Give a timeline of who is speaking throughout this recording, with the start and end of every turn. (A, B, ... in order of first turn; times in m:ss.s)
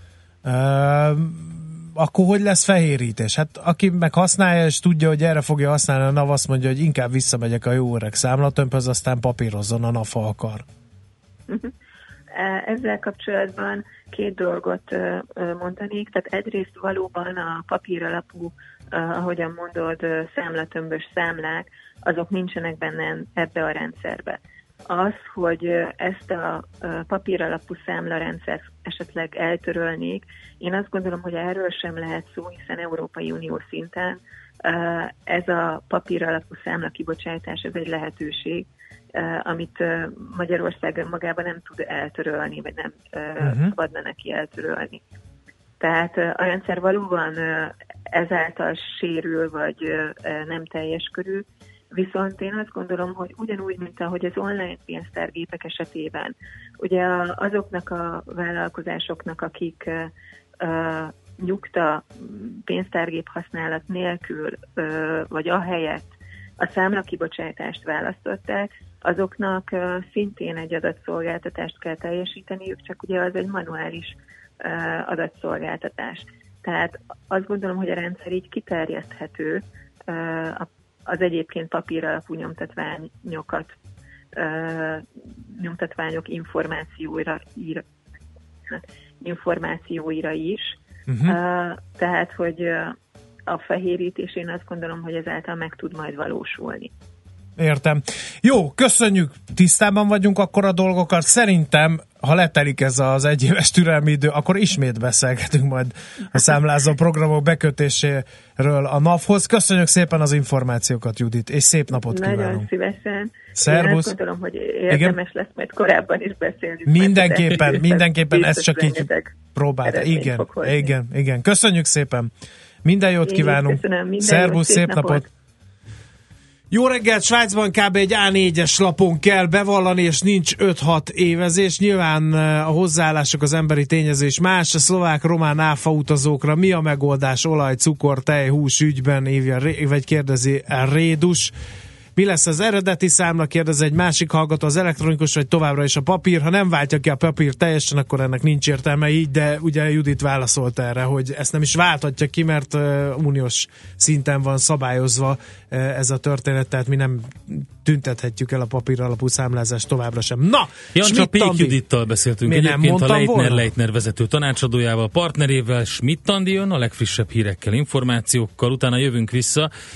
0:00.4-0:10.7 A
0:12.3-0:45.0 B
0:43.4-0:43.7 A
0:45.8-1:23.8 B
1:24.4-1:27.8 B
1:28.7-1:33.0 B
1:31.1-1:31.4 A
1:33.5-1:36.9 B
1:37.6-1:52.7 A
1:51.9-2:00.9 B
1:53.6-1:54.1 A
1:54.9-1:55.2 A
1:56.9-2:02.3 A
2:02.8-2:05.2 A
2:03.2-2:05.3 B
2:06.7-2:21.5 A
2:22.2-2:41.8 A
2:41.0-2:49.7 C
2:42.4-2:43.7 A